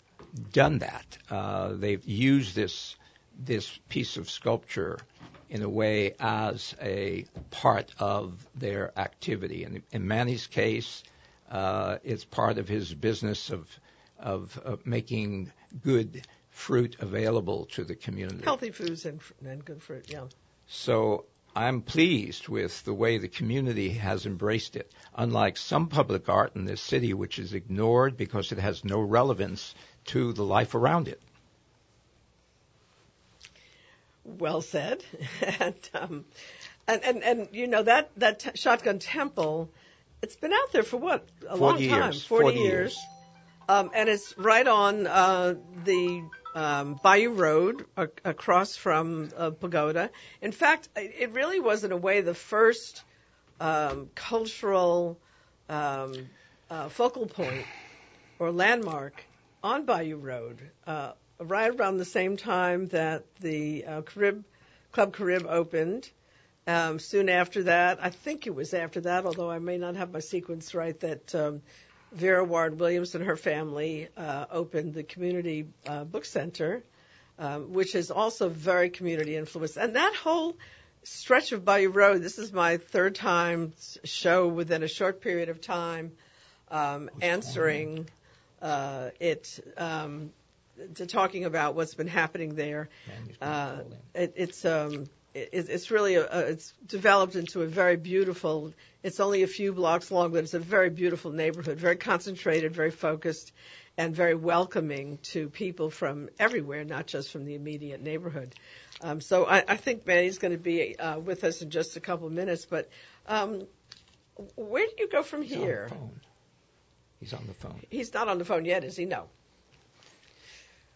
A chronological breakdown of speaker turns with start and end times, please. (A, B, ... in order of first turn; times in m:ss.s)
0:00.3-0:18.6 A
0:18.4-0:20.3 B
0:20.7-0:31.2 A
0:34.2-0:36.3 B
0:36.9-0:43.0 B
0:41.5-0:43.0 A
0:43.7-0:53.0 B
0:53.6-0:57.7 B
0:58.4-1:06.1 B
1:06.7-1:16.8 B
1:17.4-1:26.1 B
1:26.7-1:28.1 B
1:27.2-1:27.9 A
1:28.6-1:53.7 B
1:33.1-1:34.0 A
1:54.4-1:55.9 B
1:55.5-1:56.2 A
1:57.2-1:57.9 A
1:57.9-1:59.3 B